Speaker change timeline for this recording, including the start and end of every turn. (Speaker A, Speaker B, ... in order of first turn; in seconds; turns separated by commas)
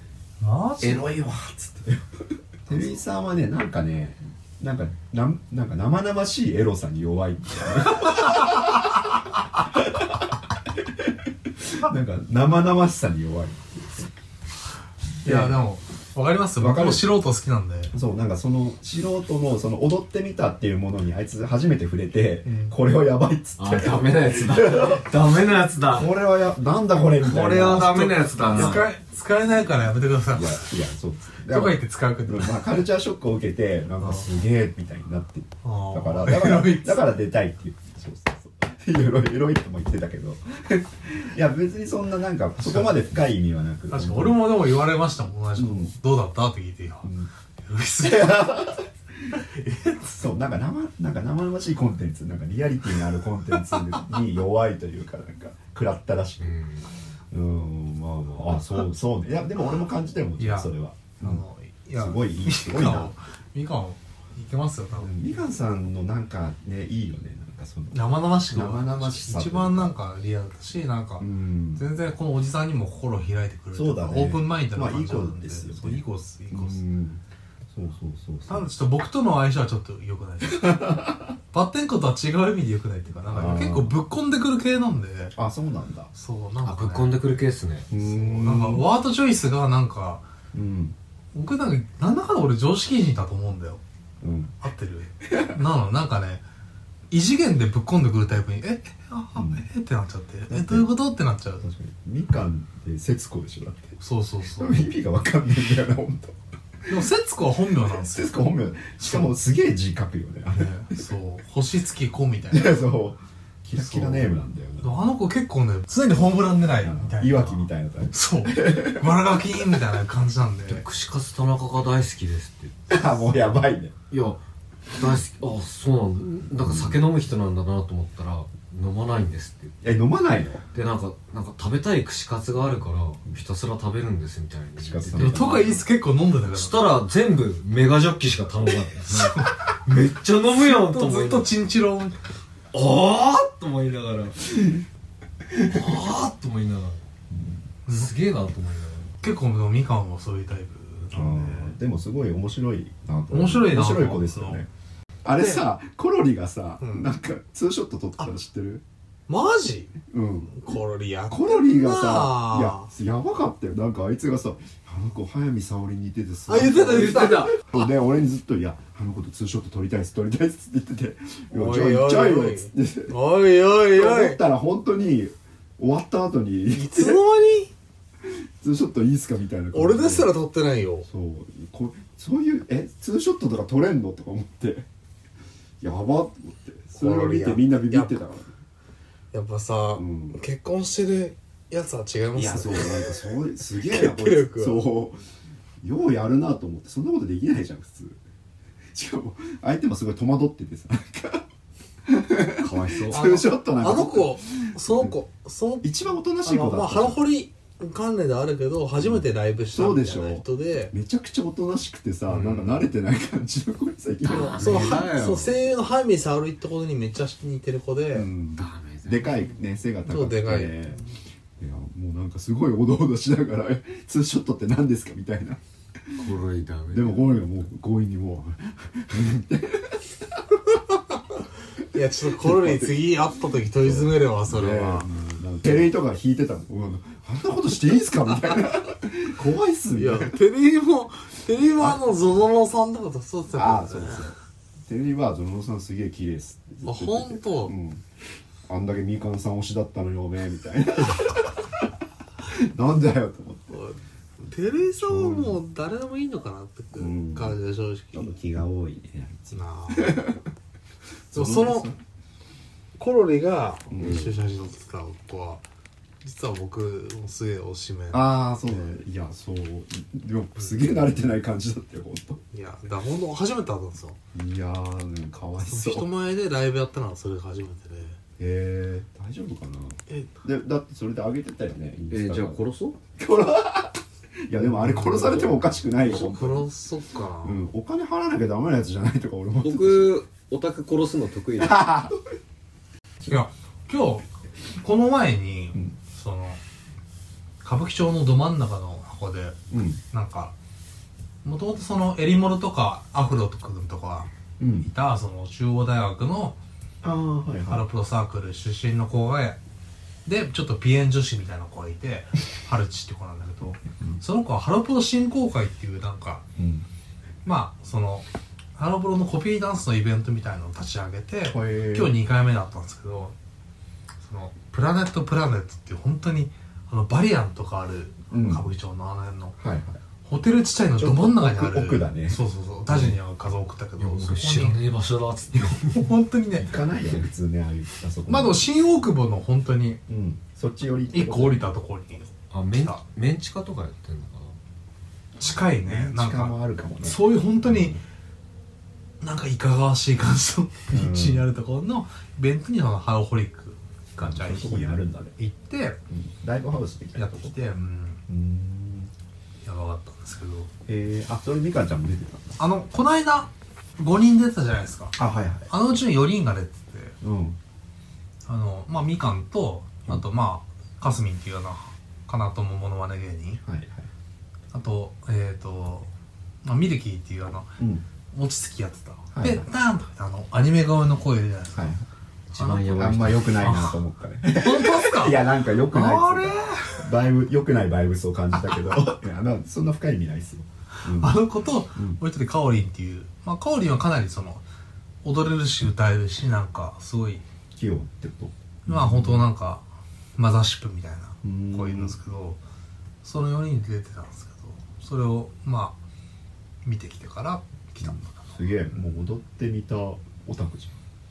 Speaker A: 0.4-1.1, Speaker B: 0.8-14.1, Speaker B: 15.2-15.6, Speaker A: 15.2-17.9, Speaker B: 16.6-17.1, Speaker B: 17.9-25.1, Speaker A: 22.4-22.7, Speaker C: 23.6-26.1, Speaker B: 25.9-28.9, Speaker C: 27.2-28.9, Speaker A: 27.8-30.7, Speaker B: 30.3-44.5, Speaker A: 31.5-32.8, Speaker A: 34.0-34.3, Speaker A: 35.6-37.0, Speaker A: 42.6-43.0, Speaker A: 43.9-47.1, Speaker B: 45.6-45.9, Speaker B: 47.0-47.3, Speaker A: 47.6-48.8, Speaker B: 48.0-49.4, Speaker A: 49.3-50.0, Speaker B: 50.0-56.6, Speaker C: 56.4-56.9, Speaker B: 57.3-61.4, Speaker A: 60.4-65.5, Speaker B: 62.0-63.1, Speaker B: 65.0-69.9, Speaker A: 67.9-76.8, Speaker B: 71.2-71.9, Speaker B: 73.7-78.7, Speaker A: 78.5-85.3, Speaker B: 80.5-81.3, Speaker B: 83.3-83.9, Speaker B: 85.3-86.1, Speaker A: 86.1-87.2, Speaker C: 86.6-87.9, Speaker B: 87.9-88.9, Speaker A: 88.0-90.2, Speaker B: 90.5-91.0, Speaker A: 91.3-93.8, Speaker B: 94.2-94.6, Speaker A: 94.6-96.4, Speaker B: 95.2-95.6, Speaker A: 97.1-101.7, Speaker B: 99.3-99.7, Speaker B: 100.5-100.9, Speaker B: 101.6-104.0, Speaker A: 104.0-104.9, Speaker B: 104.5-106.4, Speaker A: 106.9-108.3, Speaker B: 107.9-111.0, Speaker A: 109.0-109.3, Speaker A: 110.5-112.8, Speaker B: 112.5-115.1, Speaker A: 113.8-120.8, Speaker B: 116.8-119.7, Speaker C: 120.7-123.2, Speaker B: 122.9-123.9, Speaker C: 124.1-129.8, Speaker B: 126.6-127.0, Speaker B: 129.8-130.6, Speaker C: 130.7-135.8, Speaker B: 134.8-135.8, Speaker A: 135.2-136.8, Speaker C: 136.4-141.5, Speaker A: 139.2-139.6, Speaker A: 140.6-142.2, Speaker C: 142.7-144.8, Speaker B: 145.6-146.0, Speaker C: 145.6-147.0, Speaker B: 147.3-147.6, Speaker C: 147.9-149.2, Speaker A: 149.2-151.8, Speaker B: 151.1-154.7, Speaker A: 153.3-154.6, Speaker B: 155.2-158.8, Speaker A: 156.8-157.1, Speaker A: 159.3-159.9, Speaker B: 160.0-160.8, Speaker A: 160.5-162.9, Speaker B: 161.3-173.2, Speaker A: 166.5-167.9, Speaker C: 166.7-167.6, Speaker A: 171.5-174.4, Speaker B: 173.9-177.2, Speaker A: 176.7-177.7, Speaker B: 178.2-180.3, Speaker A: 179.7-181.1, Speaker B: 181.1-184.9, Speaker B: 185.8-188.6, Speaker A: 187.0-188.2, Speaker A: 189.3-194.8, Speaker B: 190.0-190.4, Speaker B: 192.3-195.2, Speaker B: 195.8-198.2, Speaker B: 198.9-201.4, Speaker B: 202.1-205.2, Speaker C: 202.5-203.3, Speaker A: 203.1-205.9, Speaker B: 205.8-207.2, Speaker A: 206.4-210.9, Speaker B: 209.0-215.1, Speaker C: 212.3-212.9, Speaker C: 214.2-215.6, Speaker A: 214.3-218.3, Speaker B: 218.1-221.0, Speaker C: 218.6-219.4, Speaker A: 220.1-221.0, Speaker B: 221.6-226.2, Speaker C: 226.2-227.5, Speaker B: 226.9-230.7, Speaker A: 231.9-235.1, Speaker B: 232.2-233.1, Speaker B: 233.8-240.4, Speaker A: 239.9-244.3, Speaker B: 243.5-248.1, Speaker A: 246.8-247.8, Speaker B: 248.7-253.8, Speaker A: 253.7-258.3, Speaker B: 255.0-255.6, Speaker B: 257.0-257.6, Speaker B: 258.1-260.4, Speaker A: 259.5-260.2, Speaker B: 261.3-262.0, Speaker A: 261.3-261.9, Speaker A: 263.0-265.6, Speaker B: 263.9-264.3, Speaker C: 264.0-264.4, Speaker A: 266.2-268.8, Speaker B: 268.1-272.4, Speaker A: 272.5-274.2, Speaker B: 274.3-276.1, Speaker A: 275.6-278.2, Speaker B: 278.4-282.6, Speaker A: 280.1-280.4, Speaker C: 282.1-283.0, Speaker B: 283.2-286.7, Speaker A: 284.6-287.7, Speaker B: 287.4-290.2, Speaker C: 289.6-291.9, Speaker B: 291.6-292.2, Speaker A: 293.3-294.3, Speaker A: 294.8-296.6, Speaker A: 297.6-299.6, Speaker B: 299.7-300.0, Speaker A: 300.1-300.5, Speaker A: 301.4-306.6, Speaker B: 304.6-304.9, Speaker B: 307.0-307.9, Speaker A: 307.7-309.6, Speaker A: 310.2-316.4, Speaker B: 313.9-314.2, Speaker B: 316.6-316.9, Speaker A: 317.4-323.4, Speaker B: 321.4-322.2, Speaker A: 324.2-329.6, Speaker B: 328.3-328.7, Speaker B: 329.6-330.0, Speaker A: 330.2-334.8, Speaker B: 331.0-333.1, Speaker C: 334.0-336.1, Speaker A: 335.9-336.8, Speaker B: 336.6-338.6, Speaker A: 338.3-340.0, Speaker B: 340.1-341.7, Speaker A: 341.1-343.0, Speaker C: 342.5-344.6, Speaker A: 345.4-348.0, Speaker B: 345.6-348.0, Speaker A: 349.2-356.0, Speaker B: 350.9-351.5, Speaker B: 354.2-355.4, Speaker B: 356.1-357.6, Speaker A: 357.1-358.2, Speaker B: 358.3-359.1, Speaker A: 359.6-360.7, Speaker B: 360.9-362.6, Speaker A: 362.6-365.2, Speaker B: 365.2-365.7, Speaker A: 365.7-367.1, Speaker B: 367.2-367.6, Speaker A: 368.5-373.6, Speaker B: 373.6-374.1, Speaker A: 374.7-376.1, Speaker A: 376.6-377.8, Speaker B: 377.8-378.1, Speaker A: 378.3-381.9, Speaker B: 379.3-379.7, Speaker B: 381.7-382.1, Speaker C: 382.5-383.6, Speaker A: 382.6-382.9, Speaker B: 382.9-391.4, Speaker A: 383.6-387.1, Speaker A: 391.1-394.6, Speaker B: 391.9-392.2, Speaker A: 395.2-397.4, Speaker B: 397.7-399.5, Speaker A: 398.9-399.8, Speaker A: 400.4-402.6, Speaker B: 401.4-402.2, Speaker A: 403.2-406.0, Speaker A: 406.8-408.6, Speaker B: 408.0-411.0